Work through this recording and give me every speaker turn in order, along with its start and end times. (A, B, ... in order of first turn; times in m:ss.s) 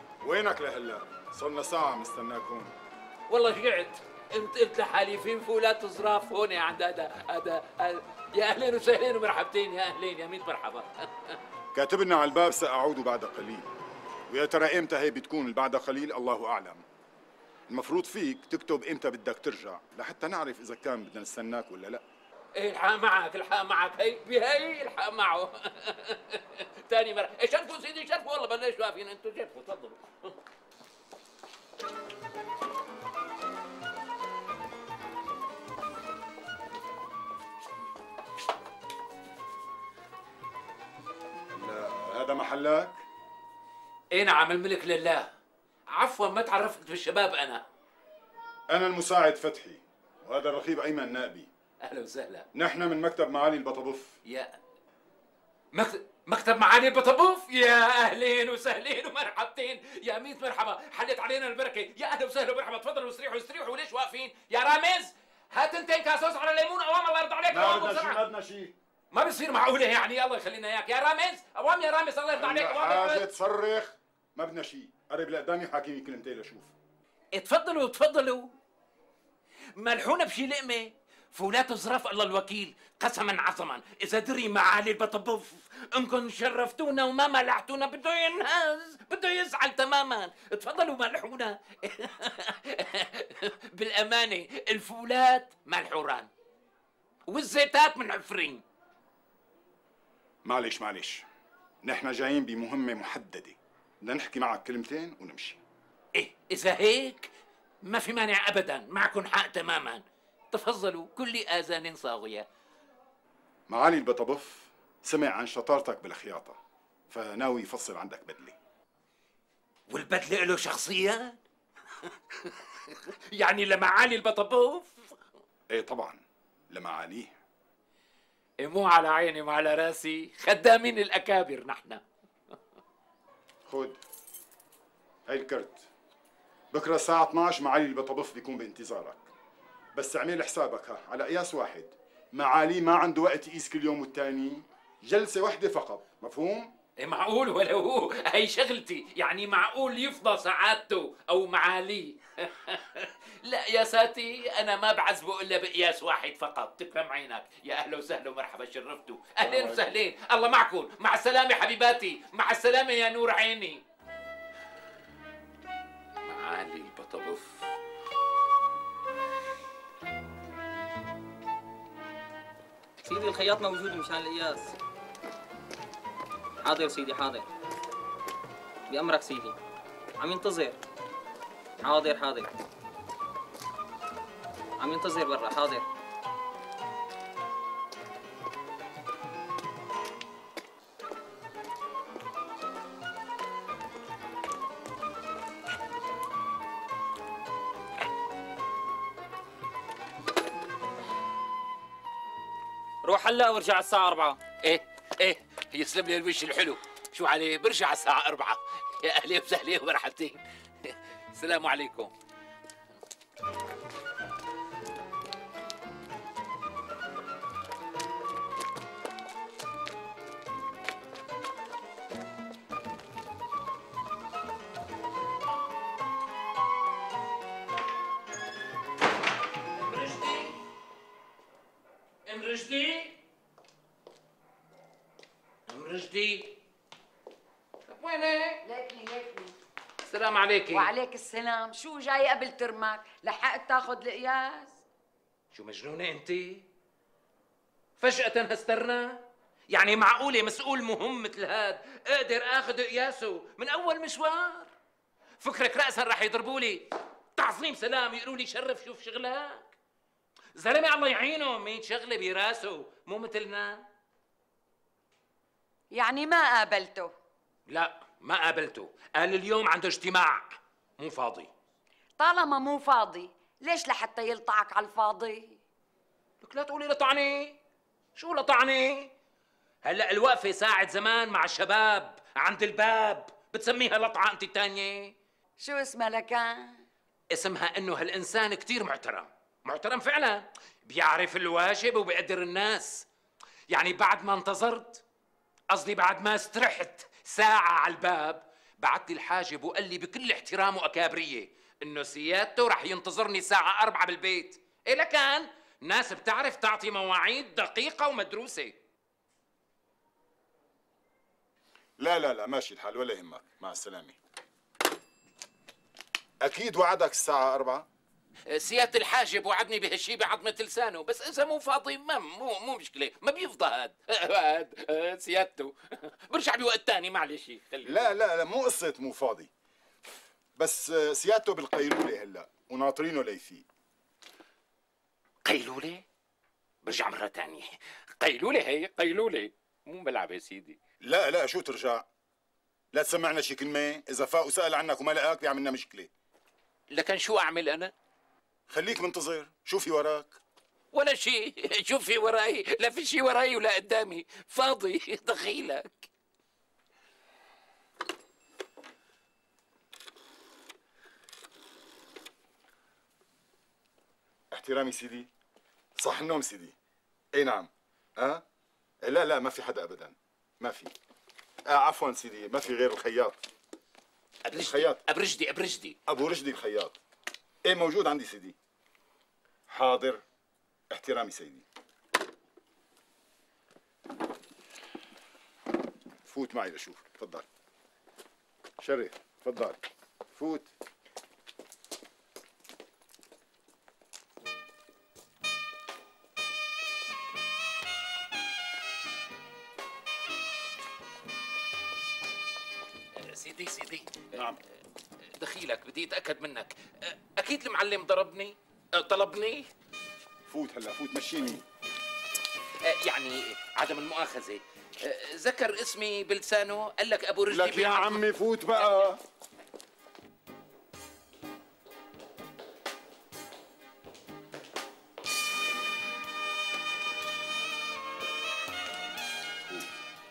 0:00.2-0:02.7 A
0:03.3-0:11.4 B
0:11.7-0:13.7 A
0:14.3-0:16.8 A
0:17.7-0:22.0 A
0:22.6-0:30.3 B
0:41.5-0:43.0 A
0:44.1-0:45.3 B
0:45.9-0:47.6 B
0:48.7-0:51.5 A
0:51.8-0:52.5 B
0:52.5-0:54.2 A
0:54.3-0:54.6 B
0:55.7-1:08.2 B
1:07.5-1:08.7 A
1:09.1-1:13.3 B
1:12.4-1:16.7 A
1:17.3-1:18.5 B
1:19.8-1:36.3 B
1:37.3-1:38.6 B
1:40.4-1:41.3 A
1:41.8-1:45.6 A
1:46.2-1:47.3 B
1:47.8-1:52.5 B
1:53.7-1:56.6 A
1:57.1-1:58.6 A
1:59.9-2:01.4 B
2:02.4-2:05.2 B
2:05.7-2:07.4 A
2:08.6-2:12.0 B
2:13.7-2:14.0 A
2:15.3-2:15.9 A
2:16.7-2:19.3 A
2:20.0-2:26.7 A
2:27.0-2:43.8 B
2:39.4-2:39.8 A
2:46.2-2:47.6 B
2:53.0-2:54.8 C
2:56.6-2:57.5 C
2:58.9-2:59.6 C
3:00.2-3:00.8 C
3:01.8-3:02.5 C
3:04.8-3:05.8 C
3:23.0-3:24.4 C
3:24.6-3:32.1 B
3:49.8-3:50.6 B
3:52.3-3:53.2 B
3:55.7-3:56.5 B
3:57.9-3:58.6 B
3:58.6-3:59.5 D
4:00.0-4:00.9 B
4:00.7-4:04.8 D
4:05.5-4:06.7 B
4:08.0-4:14.7 B
4:15.4-4:19.7 B
4:20.6-4:23.8 B
4:25.9-4:27.1 D
4:27.7-4:31.5 B
4:32.2-4:35.6 D
4:36.4-4:37.6 B
4:38.2-4:39.1 B
4:39.8-4:45.2 B
4:45.6-4:46.8 D
4:47.3-4:53.1 B
4:53.7-4:55.0 B
4:55.7-5:08.8 B
5:12.0-5:14.2 A
5:16.4-5:17.9 A
5:18.5-5:28.1 B
5:27.8-5:29.5 A
5:30.6-5:33.7 A
5:35.4-5:36.0 B
5:36.8-5:40.8 B
5:41.0-5:42.1 A
5:42.9-5:46.1 A
5:46.9-5:47.9 B
5:48.7-5:50.4 A
5:50.9-5:56.1 B
6:04.5-6:05.3 A
6:06.0-6:06.7 A
6:07.3-6:08.4 A
6:09.0-6:10.9 A
6:11.7-6:13.4 A
6:14.5-6:16.0 B
6:14.5-6:15.0 A
6:16.1-6:17.0 A
6:17.6-6:18.6 A
6:19.7-6:20.2 A
6:20.9-6:21.6 A
6:26.3-6:27.5 A
6:28.8-6:29.8 A
6:30.3-6:30.7 A
6:43.2-6:44.4 B
6:45.4-6:49.7 B
6:50.5-6:51.6 A
6:52.8-6:58.2 B
6:57.5-6:59.2 A